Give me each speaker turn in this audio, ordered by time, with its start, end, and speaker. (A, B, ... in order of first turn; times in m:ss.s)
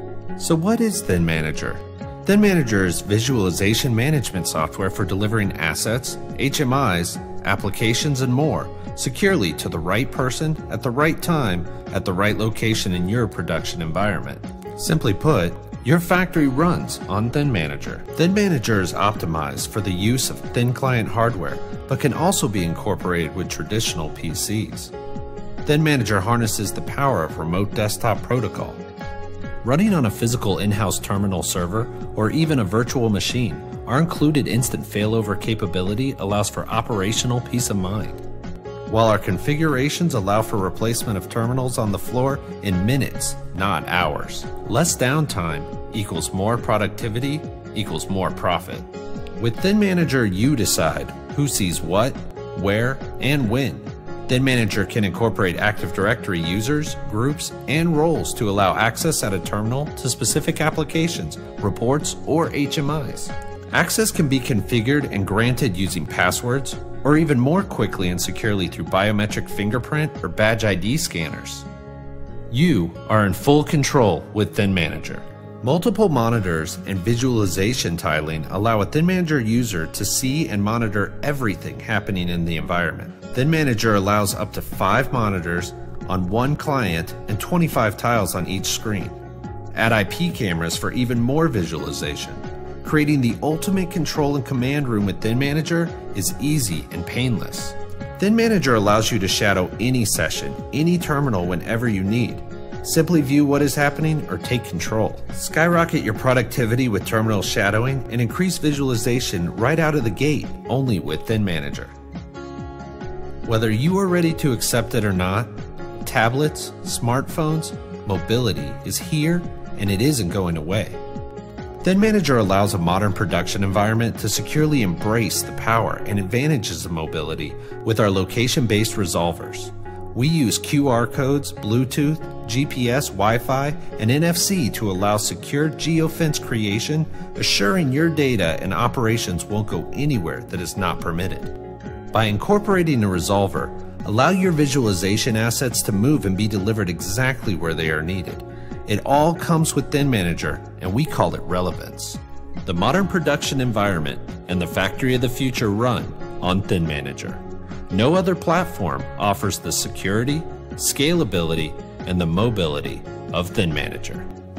0:00.4-0:24.9 A
0:25.6-0:28.8 A
0:29.6-0:38.2 A
0:38.9-1:11.7 A
1:12.5-1:29.2 A
1:29.7-1:51.9 A
1:53.4-2:01.0 A
2:01.8-2:21.6 A
2:22.1-2:44.3 A